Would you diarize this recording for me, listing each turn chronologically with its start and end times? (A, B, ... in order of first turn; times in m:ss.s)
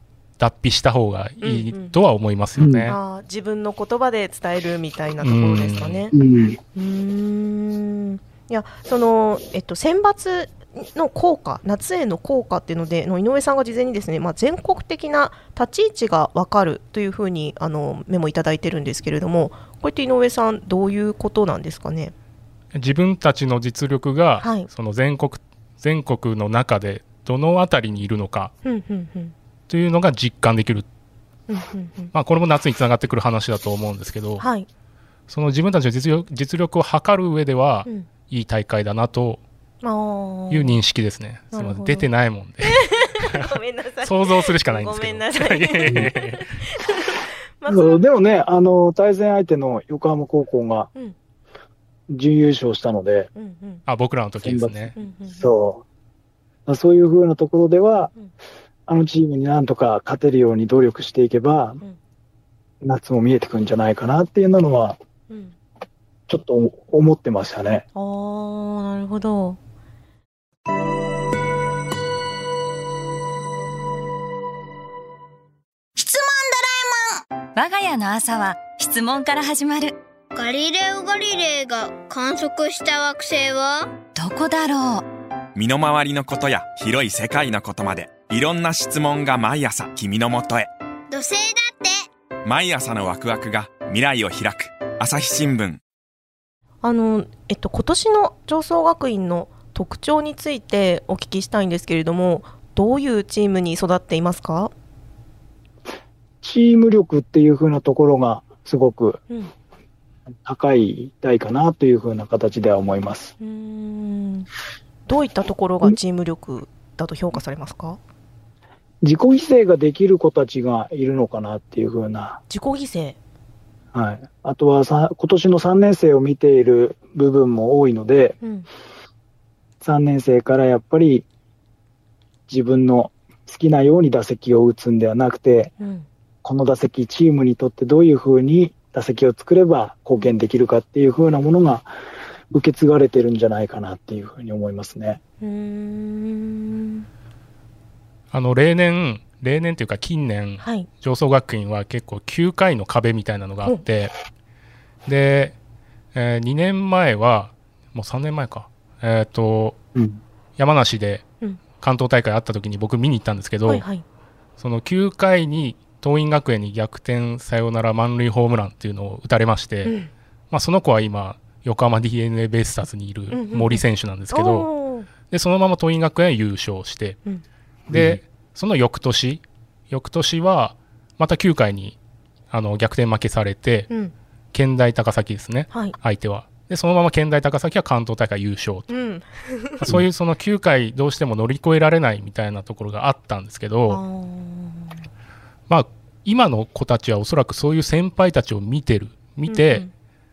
0:00.4-0:03.0 A
0:01.4-0:02.0 B
0:02.6-0:02.9 C
0:02.9-0:06.1 B
0:05.2-0:06.1 A
0:06.1-0:06.6 C
0:06.8-0:22.1 B
0:22.7-0:28.5 A
0:24.4-0:24.7 B
0:28.6-0:29.3 B
0:29.7-0:30.8 A
0:31.5-0:32.1 B
0:32.1-0:34.4 A
0:34.4-0:34.7 B
0:35.3-0:39.4 A
0:39.8-0:40.8 B
0:40.5-0:43.5 A
0:41.5-0:42.1 B
0:42.6-0:48.0 B
0:44.0-0:46.5 A
0:47.7-0:50.9 C
0:52.1-0:53.3 C
0:53.4-0:53.8 B
0:53.8-0:54.9 A
0:54.4-0:55.8 C
0:55.0-0:55.4 B
0:56.7-0:58.1 C
0:58.9-1:01.8 C
1:02.8-1:05.0 C
1:05.3-1:05.5 B
1:06.3-1:07.8 C
1:07.9-1:09.6 B
1:16.0-1:20.0 D
1:20.4-1:23.9 E
1:24.1-1:25.0 D
1:25.5-1:30.7 F
1:31.1-1:32.1 E
1:32.4-1:35.8 F
1:36.8-1:44.7 B
1:46.4-1:49.2 C
1:50.4-1:53.3 C
1:53.4-1:54.5 B
1:55.1-1:58.0 B
1:59.0-2:02.4 C
2:02.5-2:03.2 B
2:03.9-2:08.4 C
2:08.4-2:08.7 B
2:09.8-2:11.2 C
2:12.5-2:15.7 C
2:15.8-2:16.1 B
2:16.4-2:21.9 C
2:22.5-2:25.2 C
2:25.4-2:27.0 B
2:28.3-2:34.1 A
2:30.6-2:30.9 B
2:35.0-2:35.5 A
2:36.1-2:39.8 A
2:40.6-2:43.8 A
2:43.7-2:44.0 B
2:44.6-2:49.9 A
2:49.8-2:50.1 B
2:50.5-2:54.7 A
2:53.3-2:55.1 B
2:55.2-2:57.2 A
2:57.9-2:58.2 C
2:57.9-3:02.0 A
3:02.5-3:03.9 A
3:04.5-3:08.9 A
3:08.9-3:09.8 B
3:09.8-3:14.0 A
3:13.9-3:15.0 B
3:15.7-3:19.8 A
3:19.5-3:19.9 B